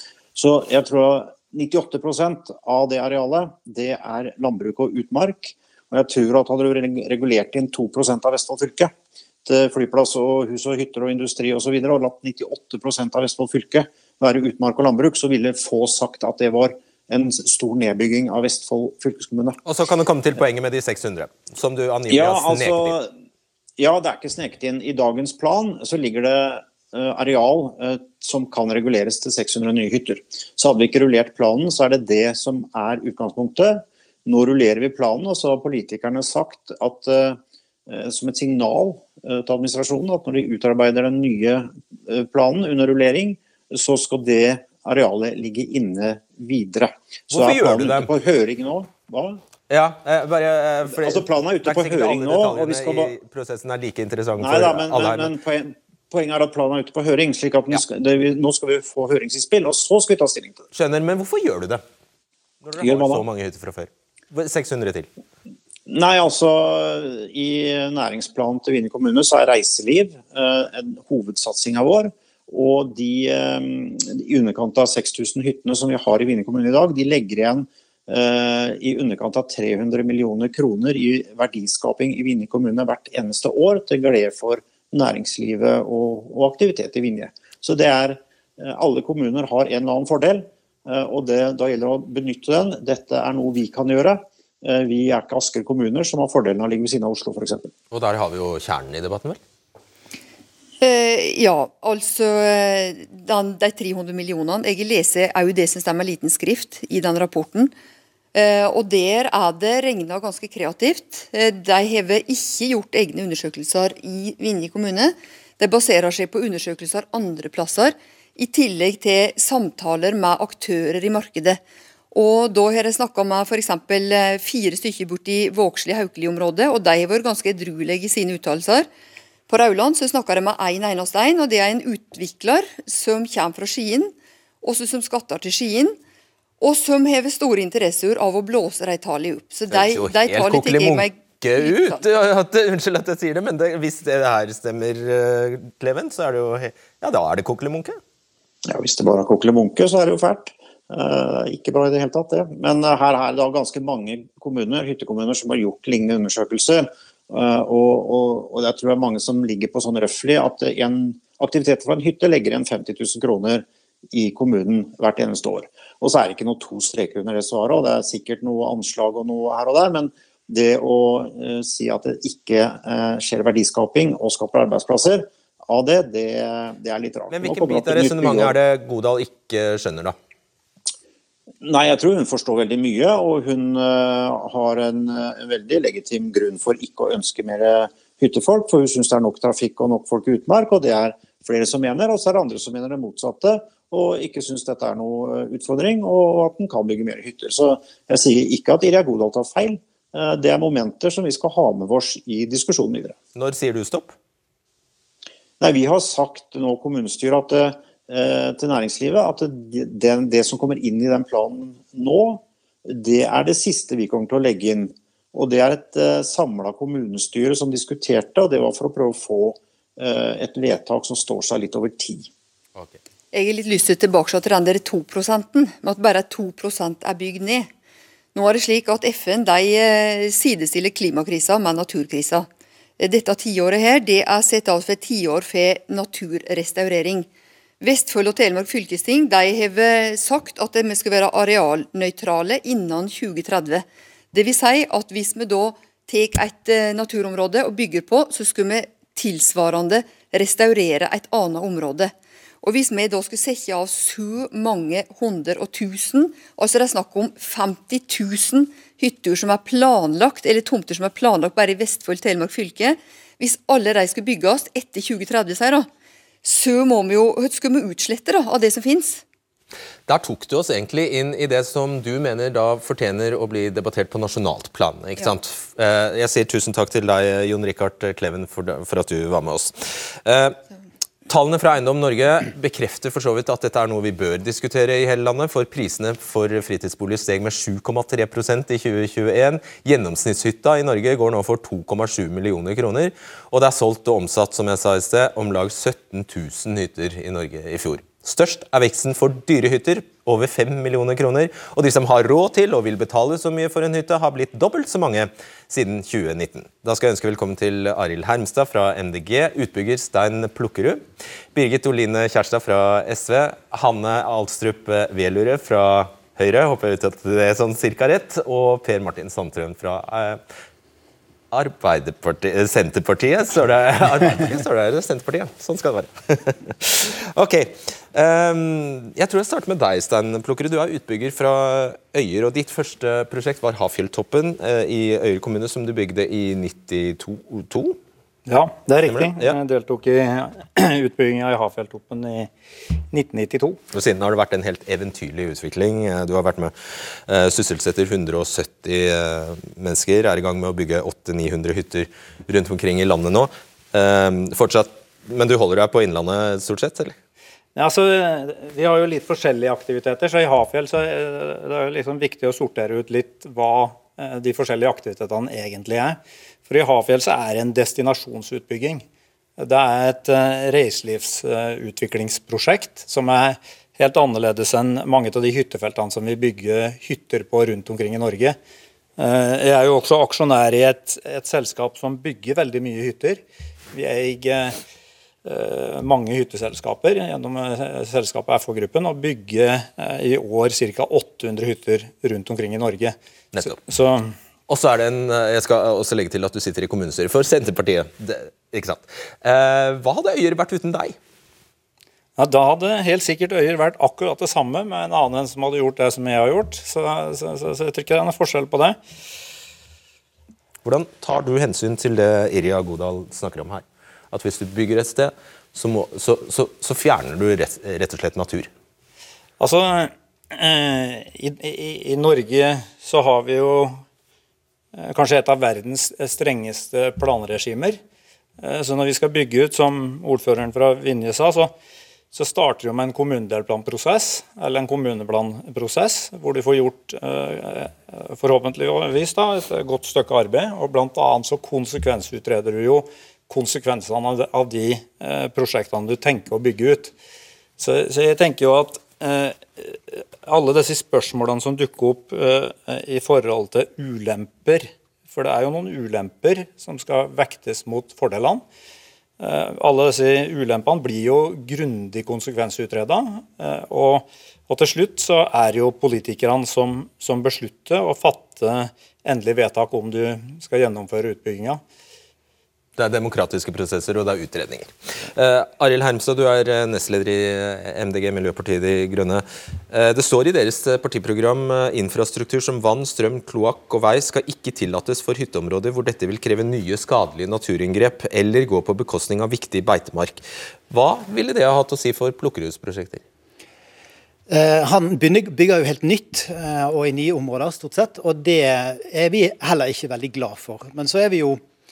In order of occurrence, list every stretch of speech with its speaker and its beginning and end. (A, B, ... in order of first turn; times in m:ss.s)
0:00.4-0:08.9 A
0:09.4-0:19.6 A
0:19.6-0:23.0 B
0:22.1-0:23.1 A
0:23.8-0:49.4 A
0:47.3-0:48.1 B
0:49.7-0:55.3 B
0:50.9-0:53.1 A
0:54.4-1:00.7 A
1:00.7-1:01.8 B
1:02.6-1:05.1 B
1:02.8-1:03.3 A
1:05.9-1:37.7 A
1:37.9-1:39.4 B
1:40.8-1:47.7 C
1:48.3-2:01.6 C
2:02.1-2:08.9 C
2:09.5-2:16.0 C
2:16.6-2:22.0 C
2:19.7-2:28.0 B
2:28.7-2:58.6 A
2:57.3-3:00.2 B
3:01.6-3:23.2 A
3:23.4-3:24.2 B
3:25.6-3:42.3 A
3:43.3-3:47.7 C
3:48.4-3:52.5 C
3:53.0-3:57.3 C
3:57.8-4:25.9 C
4:26.4-4:29.2 C
4:30.1-4:40.6 B
4:41.3-5:20.4 B
5:21.5-5:38.0 B
5:38.5-5:42.5 D
5:39.1-5:39.6 B
5:43.1-5:43.8 D
5:43.9-5:46.7 B
5:47.3-5:57.2 B
5:57.8-6:09.0 D
6:09.6-6:18.6 D
6:19.2-6:23.4 D
6:23.9-6:24.8 D
6:25.4-6:34.4 D
6:33.5-6:33.8 B
6:34.7-6:41.2 B
6:42.4-6:49.0 D
6:50.8-6:58.7 B
6:59.6-7:04.0 D
7:05.0-7:08.0 D
7:08.6-7:11.8 D
7:12.3-7:27.1 D
7:27.8-7:38.6 D
7:39.4-7:51.8 D
7:53.0-8:13.2 B
8:14.5-8:21.6 E